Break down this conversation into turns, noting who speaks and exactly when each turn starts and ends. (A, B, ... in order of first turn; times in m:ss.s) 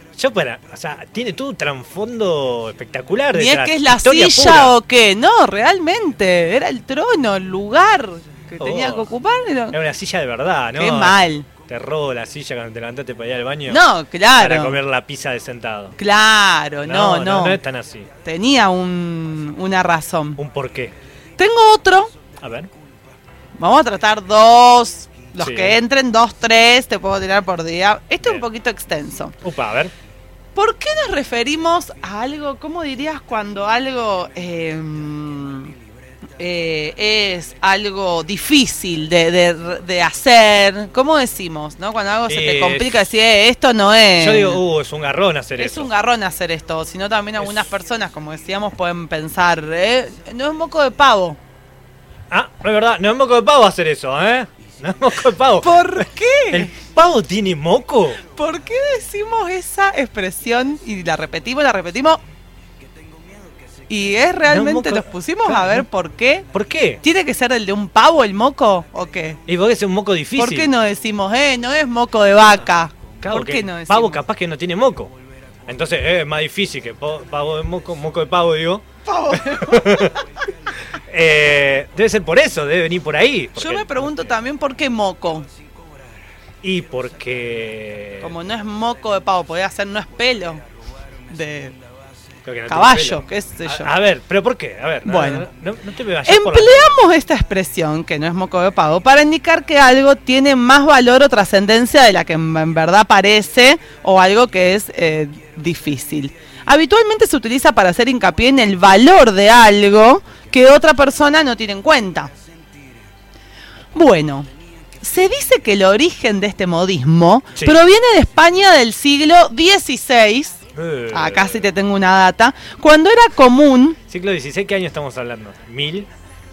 0:00.2-0:04.7 A
0:03.3-0:09.8 B
0:08.6-0:09.1 A
0:09.7-0:13.8 A
0:10.7-0:11.5 B
0:13.7-0:14.8 B
0:14.4-0:16.0 A
0:16.0-0:17.6 B
0:16.8-0:18.1 A
0:18.2-0:20.4 B
0:20.4-0:20.9 A
0:21.4-0:22.1 B
0:22.4-0:22.7 A
0:23.6-0:29.3 B
0:25.4-0:25.8 A
0:29.4-0:29.9 A
0:30.5-0:35.7 B
0:36.4-0:44.6 B
0:42.3-0:43.0 A
0:44.2-0:45.9 A
0:45.6-0:51.4 B
0:47.4-0:47.7 A
0:52.3-0:58.2 A
0:55.6-0:56.7 B
0:58.2-1:02.2 B
1:03.9-1:06.5 B
1:04.5-1:05.8 A
1:06.5-1:07.0 A
1:07.0-1:09.4 B
1:09.5-1:10.7 A
1:10.4-1:14.2 B
1:13.2-1:15.1 A
1:15.7-1:20.2 A
1:19.0-1:20.2 B
1:20.9-1:24.3 A
1:23.6-1:25.5 B
1:26.6-1:28.3 A
1:28.2-1:30.6 B
1:31.3-1:31.8 B
1:32.4-1:37.0 A
1:32.7-1:33.9 B
1:35.0-1:35.4 B
1:36.2-1:52.3 B
1:53.9-1:54.5 B
1:55.0-2:00.6 B
2:00.7-2:01.7 A
2:01.1-2:04.0 B
2:04.1-2:06.1 A